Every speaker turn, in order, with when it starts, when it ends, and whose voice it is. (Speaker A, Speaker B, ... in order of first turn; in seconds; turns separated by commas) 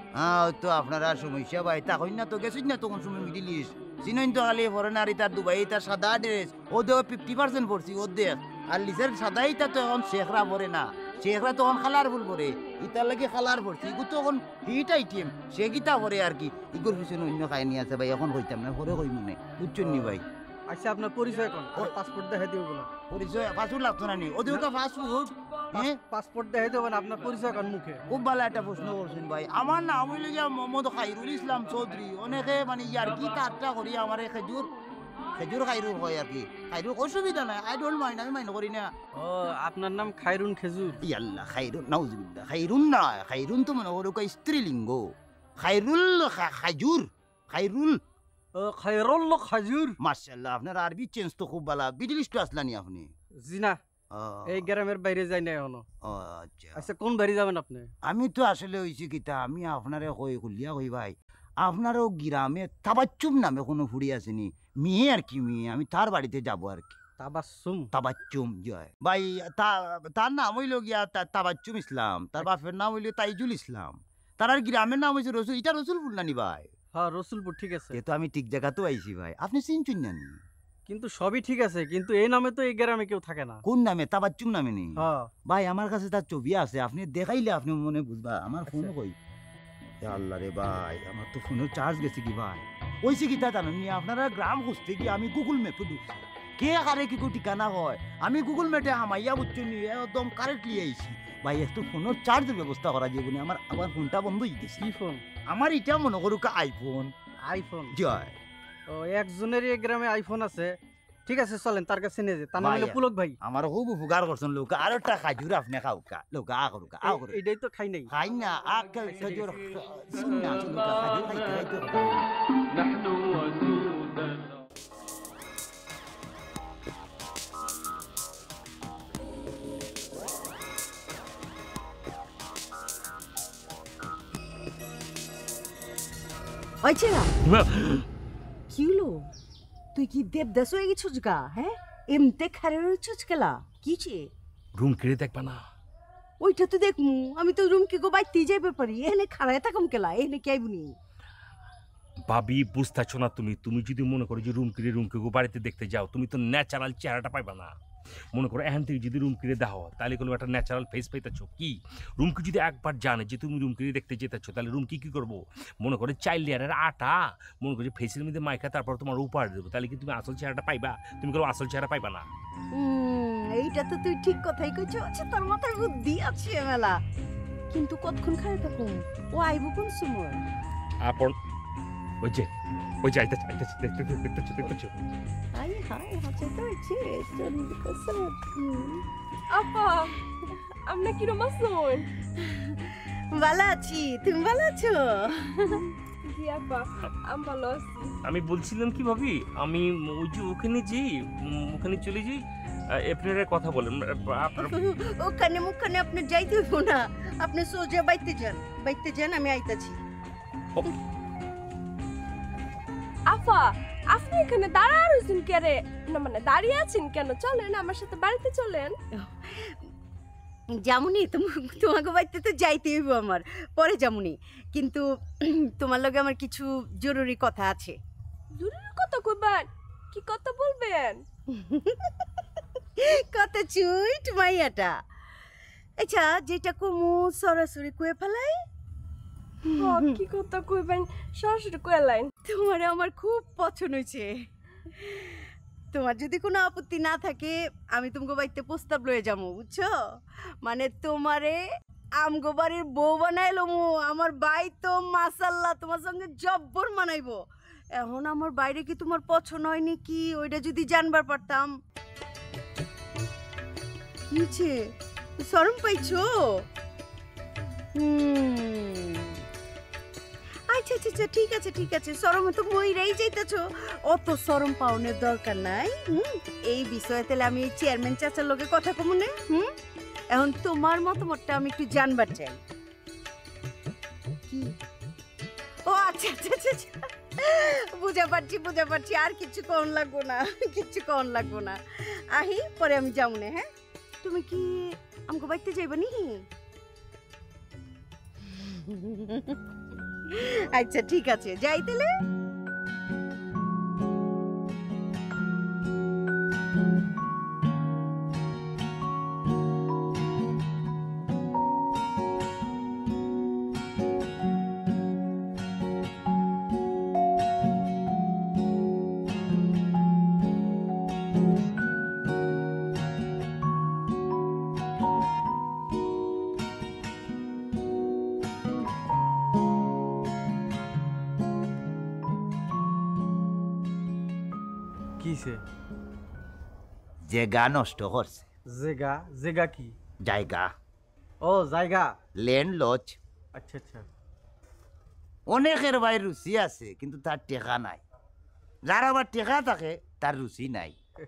Speaker A: 0.1-20.2, Speaker B: 19.8-20.1, Speaker B: 20.7-22.9, Speaker A: 23.1-26.0, Speaker B: 25.7-28.0, Speaker A: 28.1-34.7, Speaker A: 35.4-38.9, Speaker B: 39.1-41.0, Speaker A: 41.0-48.0, Speaker B: 48.5-50.0, Speaker A: 50.0-53.1, Speaker B: 53.4-53.8, Speaker A: 54.1-54.7, Speaker B: 54.5-55.8, Speaker A: 56.0-56.9, Speaker B: 56.8-57.9, Speaker A: 58.0-67.0, Speaker B: 67.2-67.9, Speaker A: 67.9-76.7, Speaker B: 77.0-78.0, Speaker A: 77.9-80.4, Speaker B: 80.9-83.6, Speaker A: 83.7-89.2, Speaker B: 85.0-85.3, Speaker A: 90.0-104.9, Speaker B: 104.8-105.2, Speaker A: 105.5-107.1, Speaker B: 107.5-108.0, Speaker A: 107.9-108.4, Speaker B: 108.9-113.4, Speaker A: 112.6-117.4, Speaker B: 117.0-118.1, Speaker A: 118.1-122.3, Speaker C: 136.8-137.3, Speaker D: 137.4-138.1, Speaker C: 138.7-139.3, Speaker C: 139.9-144.3, Speaker D: 144.8-145.6, Speaker C: 146.4-150.9, Speaker D: 152.3-157.8, Speaker D: 158.3-172.3, Speaker C: 172.7-177.0, Speaker C: 177.7-180.5, Speaker D: 181.0-181.3, Speaker D: 182.2-182.5, Speaker D: 183.0-185.0, Speaker C: 185.6-189.1, Speaker E: 189.5-190.1, Speaker E: 190.9-192.1, Speaker C: 192.4-195.9, Speaker E: 196.2-198.2, Speaker D: 198.2-204.8, Speaker C: 204.6-210.0, Speaker E: 213.3-218.9, Speaker C: 219.3-219.8, Speaker C: 220.8-228.0, Speaker E: 228.6-231.2, Speaker C: 231.5-232.1, Speaker C: 233.0-234.9, Speaker C: 236.0-238.6, Speaker C: 239.6-240.2, Speaker E: 239.8-242.3, Speaker C: 242.5-244.3, Speaker C: 245.0-249.9, Speaker C: 250.6-251.6, Speaker C: 252.2-257.4, Speaker C: 257.9-261.7, Speaker C: 264.3-266.7, Speaker C: 268.0-269.4, Speaker C: 270.7-279.8, Speaker C: 280.3-282.6, Speaker C: 284.5-284.8, Speaker C: 285.9-293.7, Speaker C: 294.2-296.5, Speaker C: 298.4-299.6, Speaker C: 300.3-302.1, Speaker B: 335.2-335.6, Speaker A: 337.3-338.5, Speaker B: 338.7-340.0, Speaker A: 340.2-340.7, Speaker B: 341.4-342.1, Speaker A: 342.4-343.2, Speaker B: 343.6-344.1, Speaker A: 345.5-348.0, Speaker A: 348.9-350.9